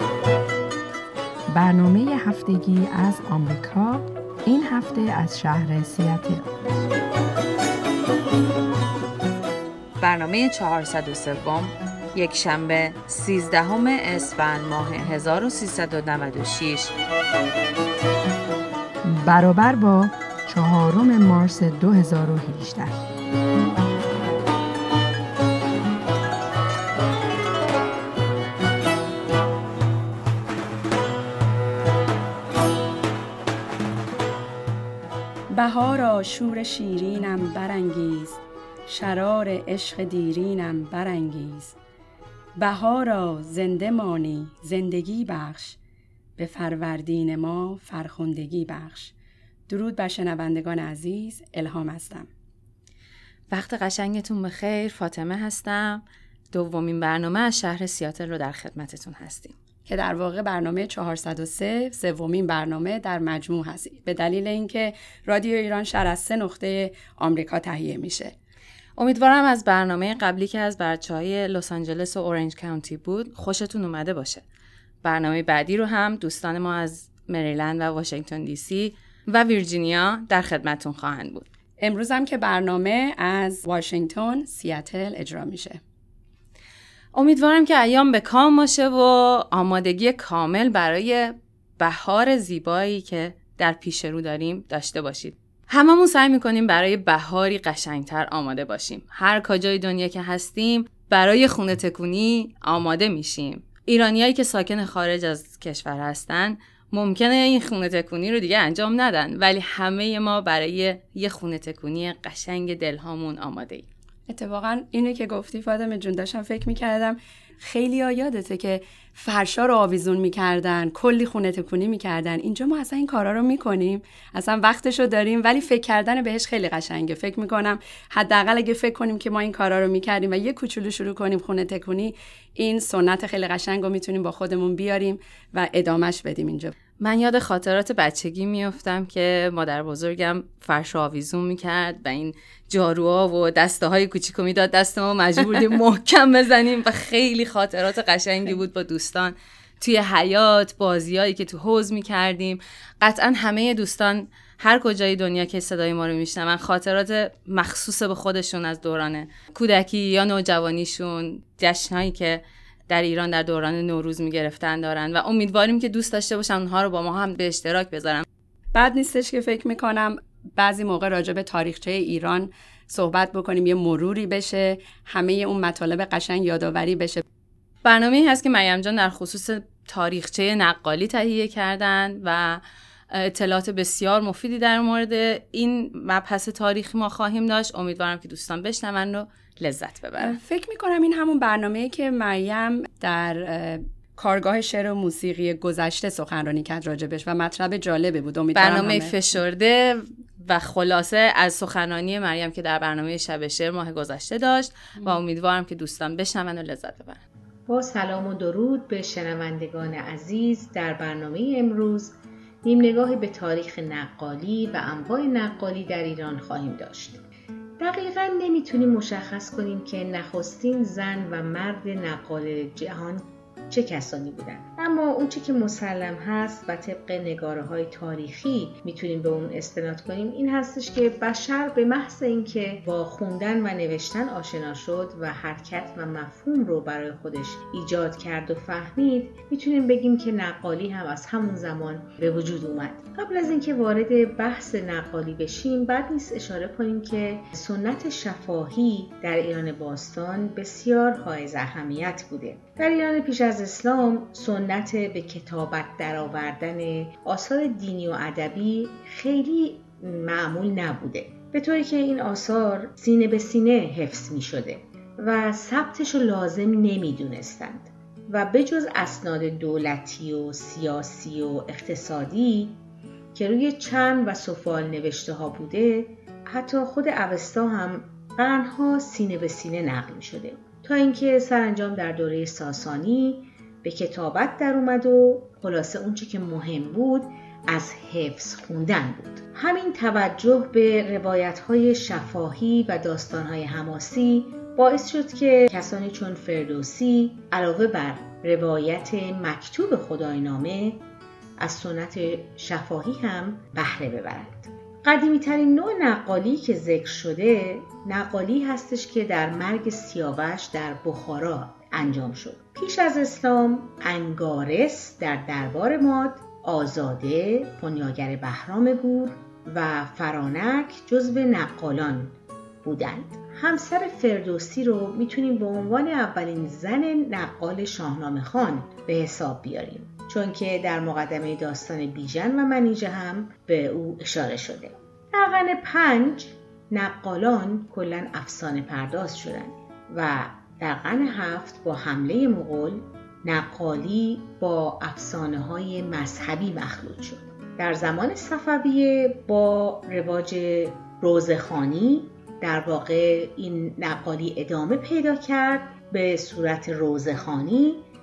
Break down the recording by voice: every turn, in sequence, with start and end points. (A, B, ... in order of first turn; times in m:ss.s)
0:01.5-0:06.5 A
0:10.0-0:16.9 B
0:19.0-0:23.0 A
0:35.5-0:41.8 C
0:42.6-0:45.8 C
0:46.4-0:49.1 C
0:49.7-0:52.3 C
0:53.5-0:59.6 D
0:59.9-1:08.3 C
1:09.0-1:14.4 D
1:15.0-1:21.5 D
1:21.8-1:25.8 C
1:27.1-1:53.9 D
1:54.3-2:16.7 C
2:17.0-2:48.2 D
2:48.7-2:57.2 C
2:57.8-3:10.4 D
3:10.2-3:19.4 C
3:18.6-3:27.2 D
3:27.7-3:37.2 E
3:37.8-4:32.8 E
4:33.3-5:01.0 E
5:01.6-5:58.0 E